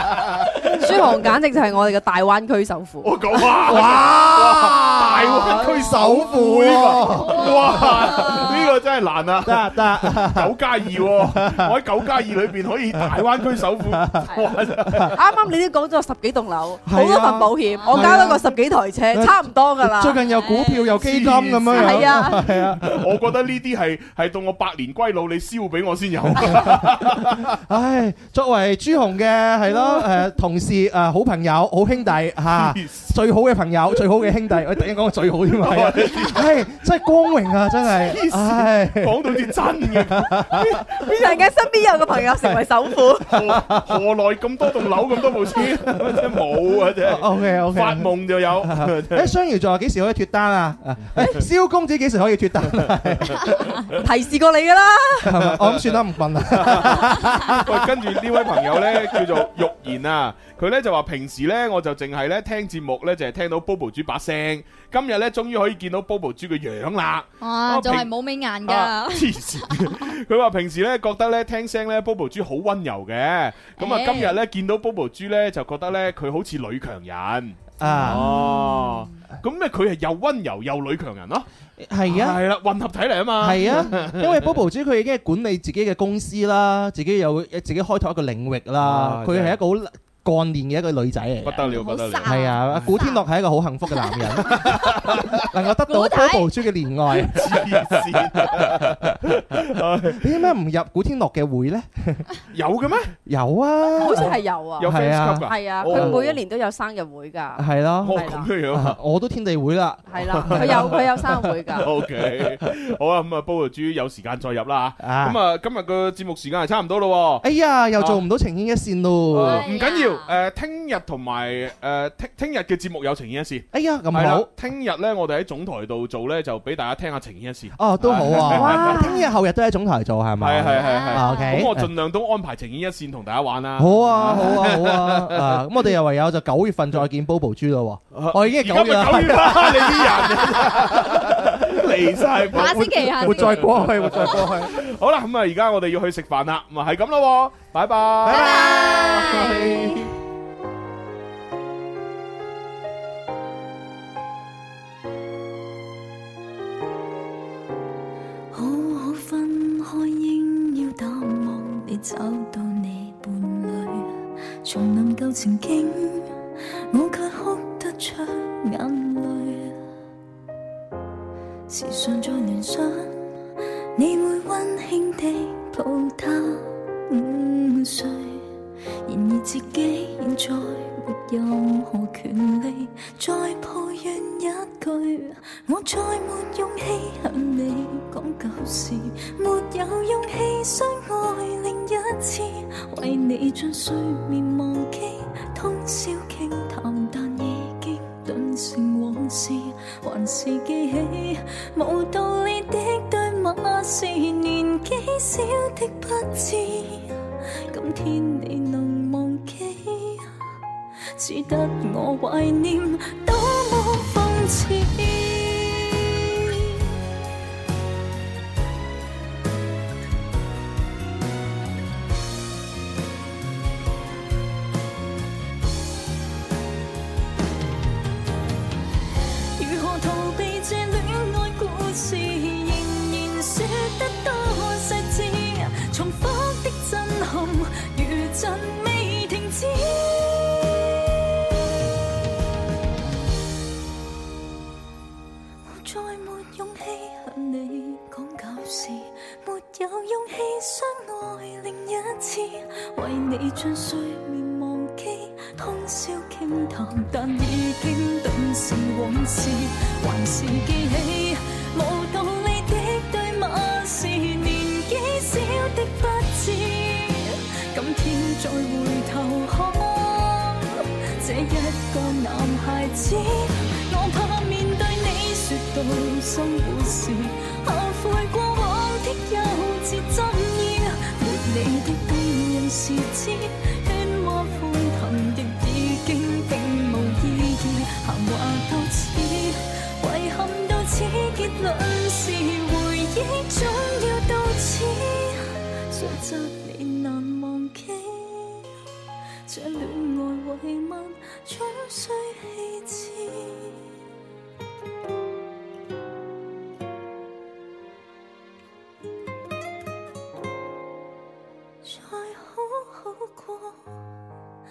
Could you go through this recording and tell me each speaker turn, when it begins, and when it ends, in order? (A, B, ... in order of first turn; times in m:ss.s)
0:00.8-0:03.1 A
0:03.0-0:15.2 B
0:03.6-0:08.6 C
0:07.3-0:08.4 D
0:09.4-0:11.7 C
0:13.8-0:14.3 C
0:15.1-0:20.2 A
0:16.9-0:18.5 C
0:17.8-0:18.0 D
0:19.1-0:23.1 C
0:20.3-0:20.9 D
0:20.9-0:27.6 B
0:21.7-0:22.4 A
0:26.3-0:40.8 C
0:32.5-0:33.1 B
0:35.6-0:36.5 B
0:37.8-0:41.4 B
0:41.1-0:43.4 A
0:43.3-0:49.3 B
0:43.3-0:43.8 C
0:45.5-0:46.4 C
0:47.0-0:53.8 C
0:53.4-0:53.7 B
0:54.0-0:55.4 A
0:55.2-0:57.9 C
0:55.4-0:56.0 B
0:56.5-1:08.1 B
1:07.4-1:10.1 D
1:08.6-1:21.5 B
1:13.8-1:14.4 D
1:17.8-1:18.3 C
1:17.8-1:19.0 D
1:21.8-1:22.4 C
1:22.0-1:24.5 B
1:23.4-1:31.7 C
1:28.8-1:29.6 B
1:31.4-1:33.0 B
1:31.6-1:33.2 D
1:32.2-1:38.9 C
1:33.9-1:34.8 D
1:34.4-1:35.4 B
1:35.9-1:36.5 D
1:37.2-1:40.4 B
1:40.2-1:42.2 C
1:42.5-1:43.1 B
1:43.2-1:46.2 C
1:44.0-1:44.9 A
1:44.8-1:46.4 B
1:45.4-1:48.5 A
1:47.6-1:51.0 C
1:48.0-1:49.0 B
1:50.1-1:51.9 A
1:50.3-1:51.0 B
1:51.7-1:57.4 B
1:55.0-1:55.4 C
1:57.4-1:59.6 C
1:58.0-1:58.2 B
1:59.3-2:09.1 B
1:59.4-2:00.3 D
2:03.7-2:04.5 C
2:07.8-2:11.9 C
2:08.5-2:08.9 A
2:08.9-2:09.2 D
2:10.4-2:15.6 B
2:10.7-2:11.6 D
2:13.8-2:21.5 C
2:18.1-2:30.1 B
2:22.5-2:23.7 D
2:22.6-2:24.8 C
2:24.2-2:24.5 D
2:28.2-2:30.0 D
2:28.3-2:29.1 C
2:38.5-2:46.3 E
2:46.9-2:49.8 E
2:51.7-2:53.2 E
2:54.0-2:58.4 E
2:59.0-3:27.2 E
3:27.7-3:30.3 E
3:31.2-3:36.7 E
3:49.6-4:00.8 E
4:05.6-4:58.6 E
4:59.4-5:03.8 E
5:11.8-5:13.9 E